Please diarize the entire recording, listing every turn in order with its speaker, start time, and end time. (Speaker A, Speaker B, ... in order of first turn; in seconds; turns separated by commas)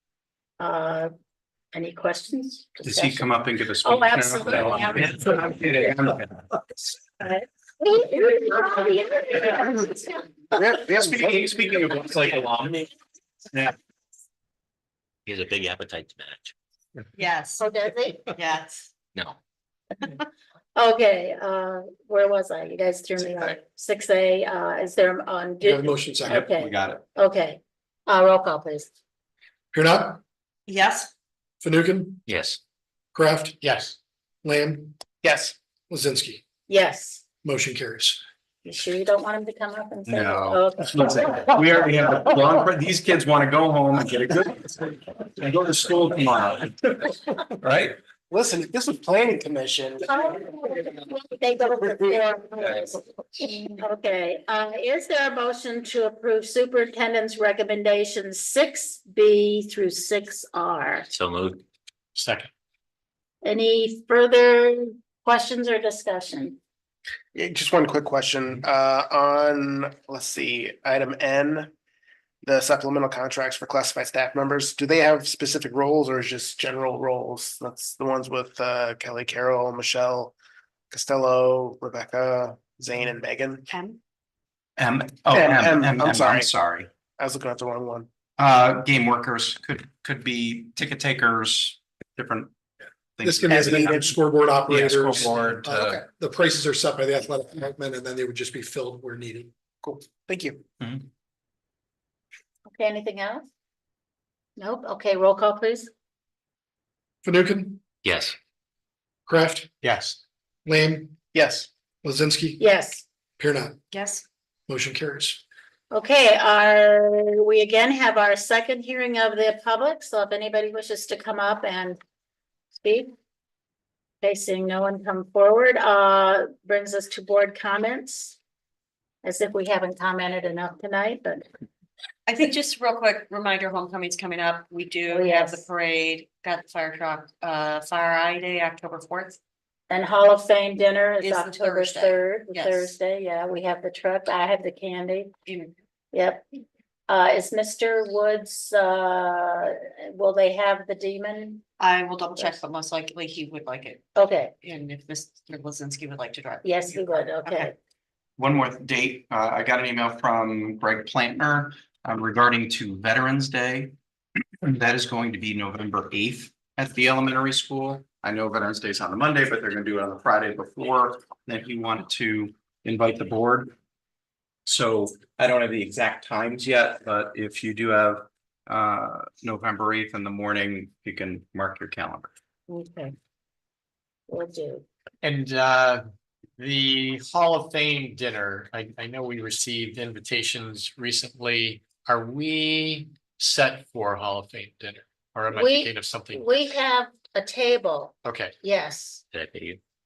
Speaker A: 0.6-1.1, Speaker A: 1.7-3.3, Speaker B: 2.8-6.5, Speaker A: 3.8-5.4, Speaker A: 7.2-10.6, Speaker C: 10.6-11.7, Speaker B: 10.9-12.9, Speaker D: 15.2-16.5, Speaker E: 17.1-17.7, Speaker A: 17.6-18.3, Speaker E: 18.3-18.9, Speaker A: 20.7-28.9, Speaker F: 25.6-26.4, Speaker B: 26.3-27.0, Speaker F: 29.7-30.2, Speaker E: 30.7-31.1, Speaker F: 31.6-32.2, Speaker D: 32.3-32.6, Speaker F: 33.1-33.6, Speaker G: 33.6-33.9, Speaker F: 34.4-35.0, Speaker C: 35.2-35.5, Speaker F: 35.9-36.4, Speaker A: 36.7-37.2, Speaker F: 37.4-38.2, Speaker A: 38.6-41.5, Speaker B: 40.1-48.0, Speaker C: 48.3-50.1, Speaker A: 50.1-61.1, Speaker C: 51.8-52.2, Speaker D: 61.1-61.6, Speaker G: 62.1-62.5, Speaker A: 63.4-66.6, Speaker C: 67.3-71.7, Speaker C: 72.4-80.3, Speaker C: 80.9-83.7, Speaker E: 83.7-84.0, Speaker B: 84.8-86.9, Speaker C: 85.3-86.5, Speaker C: 87.1-88.1, Speaker B: 88.4-92.5, Speaker B: 93.2-94.1, Speaker F: 93.2-99.5, Speaker C: 93.5-94.1, Speaker B: 94.7-96.0, Speaker C: 99.8-100.6, Speaker B: 100.8-101.0, Speaker A: 102.7-103.5, Speaker A: 104.6-105.9, Speaker F: 107.2-107.8, Speaker D: 108.0-108.3, Speaker F: 109.3-109.7, Speaker G: 109.8-110.2, Speaker F: 110.6-111.2, Speaker C: 111.3-111.7, Speaker F: 112.0-112.6, Speaker A: 112.6-113.0, Speaker F: 113.4-113.8, Speaker E: 113.9-114.2, Speaker F: 114.7-115.4, Speaker A: 115.9-122.0, Speaker A: 122.7-123.1, Speaker A: 124.2-128.4, Speaker A: 129.2-131.4, Speaker E: 132.3-139.4, Speaker A: 135.1-135.7, Speaker A: 139.9-145.3, Speaker E: 141.2-142.9, Speaker E: 145.4-145.7, Speaker A: 146.1-146.4, Speaker A: 147.1-151.6, Speaker E: 151.8-154.1, Speaker A: 154.1-154.5, Speaker E: 154.6-157.7, Speaker A: 156.6-157.8, Speaker B: 158.4-163.9, Speaker B: 164.6-173.7, Speaker B: 174.7-182.3, Speaker A: 182.7-183.1, Speaker A: 184.3-184.8, Speaker G: 185.2-186.0, Speaker G: 186.6-196.4, Speaker A: 195.5-199.2, Speaker G: 198.2-198.5, Speaker D: 199.3-199.8